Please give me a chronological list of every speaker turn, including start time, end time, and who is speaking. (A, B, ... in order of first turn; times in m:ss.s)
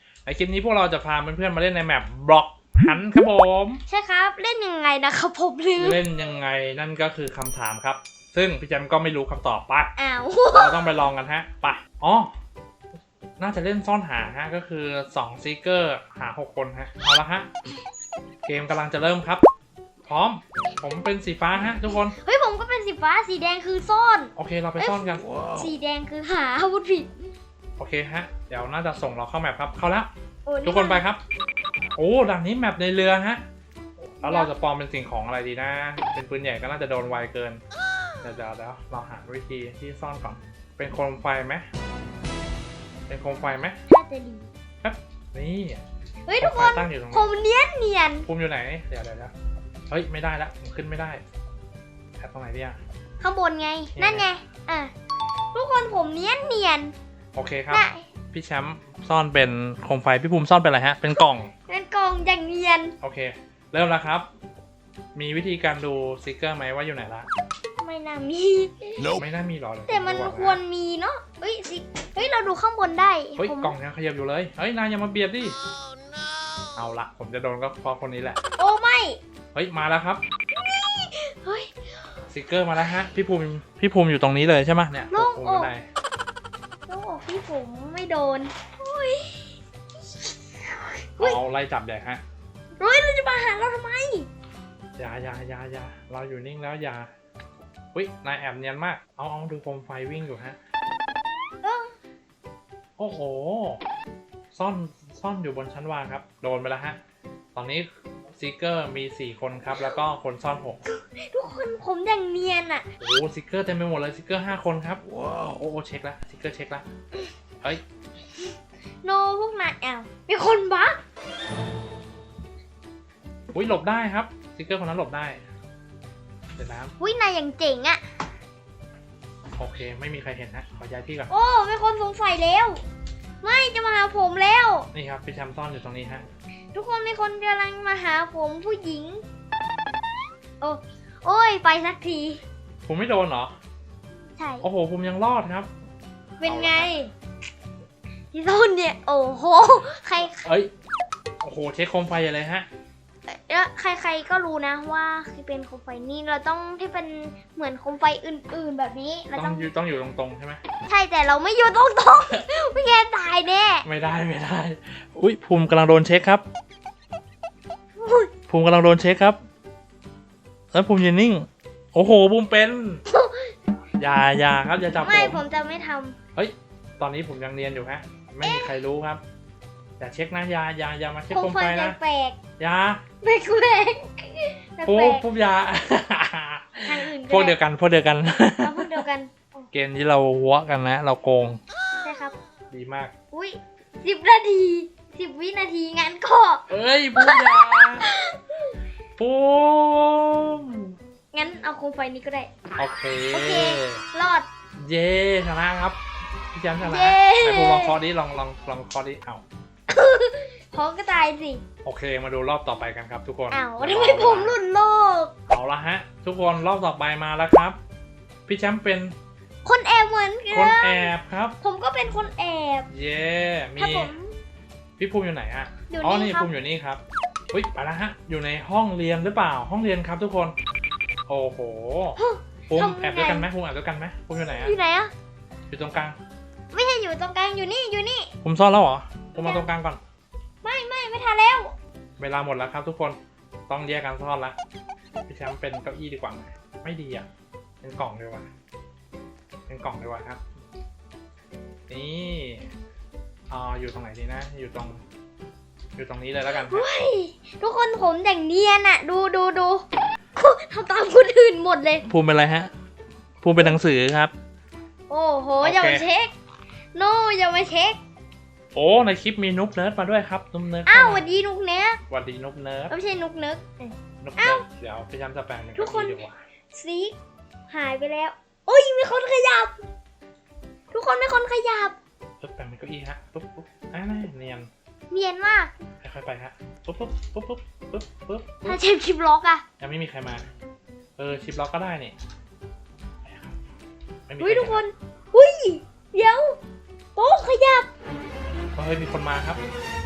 0:00.3-0:03.8 A
0:03.9-0:06.0 B
0:05.8-0:09.9 A
0:10.0-0:10.8 B
0:10.5-0:12.3 A
0:13.4-0:17.5 A
0:18.5-0:19.4 A
0:20.0-0:22.2 A
0:22.1-0:27.2 B
0:24.4-0:25.3 A
0:27.8-0:30.1 A
0:30.5-0:31.1 B
0:30.6-0:31.2 A
0:32.0-0:33.4 A
0:34.0-0:37.6 A
0:34.2-0:34.5 B
0:38.2-0:41.7 A
0:43.1-0:43.8 A
0:43.9-0:44.5 B
0:44.8-0:45.8 A
0:46.3-0:48.3 B
0:46.4-0:47.3 A
0:48.2-0:49.3 A
0:49.9-0:51.2 A
0:52.2-0:52.8 A
0:53.2-0:54.9 B
0:54.0-0:54.3 A
0:55.5-0:56.9 B
0:57.4-1:01.5 A
0:57.7-0:58.0 B
1:01.7-1:03.0 B
1:03.0-1:04.3 A
1:05.2-1:07.3 A
1:07.8-1:09.1 B
1:09.1-1:10.6 A
1:09.9-1:13.8 B
1:13.4-1:15.6 A
1:16.8-1:18.4 A
1:18.6-1:19.2 B
1:19.5-1:20.2 A
1:20.6-1:21.7 B
1:22.3-1:25.9 A
1:25.1-1:25.7 B
1:26.9-1:29.5 B
1:30.7-1:31.4 B
1:31.2-1:32.2 A
1:32.8-1:34.3 B
1:35.0-1:37.1 A
1:37.9-1:40.6 A
1:41.6-1:41.9 B
1:43.0-1:43.8 A
1:44.5-1:47.0 A
1:47.6-1:50.8 A
1:50.9-1:52.9 B
1:53.0-1:56.9 A
1:59.0-2:01.0 B
2:03.5-2:05.4 A
2:06.6-2:06.9 A
2:07.0-2:08.0 B
2:09.6-2:11.3 A
2:11.3-2:12.8 B
2:13.4-2:14.9 B
2:14.9-2:16.3 A
2:16.7-2:19.2 B
2:20.6-2:22.4 B
2:22.9-2:23.5 A
2:24.4-2:24.7 B
2:24.6-2:25.7 A
2:26.4-2:27.1 B
2:26.4-2:26.9 A
2:28.3-2:30.4 B
2:30.4-2:30.7 A
2:31.4-2:32.7 A
2:33.3-2:39.7 B
2:39.4-2:40.6 A
2:40.9-2:43.9 B
2:43.8-2:46.4 A
2:48.0-2:48.3 B
2:48.5-2:49.4 A
2:50.7-2:53.0 A
2:53.1-2:53.5 B
2:54.0-2:55.4 A
2:55.0-2:56.2 B
2:56.4-2:59.2 A
2:58.4-2:58.7 B
3:00.0-3:02.0 A
3:01.3-3:02.4 B
3:02.6-3:03.0 A
3:03.2-3:05.2 B
3:04.8-3:09.0 A
3:06.8-3:07.6 B
3:08.6-3:09.7 B
3:09.7-3:11.6 A
3:12.0-3:12.4 B
3:12.7-3:13.1 A
3:13.3-3:16.6 B
3:16.7-3:18.1 A
3:17.2-3:18.7 B
3:19.2-3:21.0 A
3:21.3-3:22.5 B
3:22.8-3:24.0 A
3:23.3-3:24.5 B
3:24.8-3:26.0 A
3:26.5-3:29.4 A
3:26.8-3:28.0 B
3:29.9-3:31.6 B
3:31.8-3:34.6 A
3:33.5-3:35.3 B
3:35.5-3:37.8 A
3:38.5-3:39.2 A
3:39.6-3:42.9 B
3:40.5-3:41.6 A
3:42.9-3:44.1 A
3:43.8-3:44.4 B
3:45.0-3:50.6 A
3:45.9-3:46.5 B
3:51.3-3:52.2 A
3:52.2-3:53.5 B
3:52.7-3:54.8 A
3:54.4-3:55.1 B
3:55.7-3:56.2 A
3:56.7-3:58.3 B
3:58.4-4:00.0 A
3:59.4-3:59.6 B
4:00.6-4:01.7 B
4:02.2-4:04.6 A
4:05.3-4:07.3 A
4:07.8-4:08.5 A
4:09.7-4:10.4 A
4:11.9-4:12.7 A
4:13.5-4:15.0 A
4:16.0-4:16.9 A
4:16.6-4:19.8 B
4:20.4-4:22.0 B
4:22.0-4:22.7 A
4:23.4-4:24.3 A
4:25.1-4:26.3 B
4:25.6-4:26.1 A
4:27.0-4:28.0 B
4:28.8-4:31.3 A
4:30.9-4:32.0 B
4:32.1-4:33.0 A
4:32.9-4:34.6 B
4:34.2-4:36.4 A
4:35.8-4:36.2 B
4:36.7-4:37.2 B
4:37.7-4:39.8 B
4:40.9-4:42.0 B
4:42.4-4:44.7 A
4:45.1-4:45.8 B
4:46.0-4:48.8 A
4:48.6-4:49.6 B
4:49.8-4:50.4 A
4:51.2-4:52.2 A
4:53.2-4:53.6 A
4:54.3-4:54.8 A
4:54.4-4:56.6 B
4:57.2-4:57.9 B
4:58.8-4:59.6 A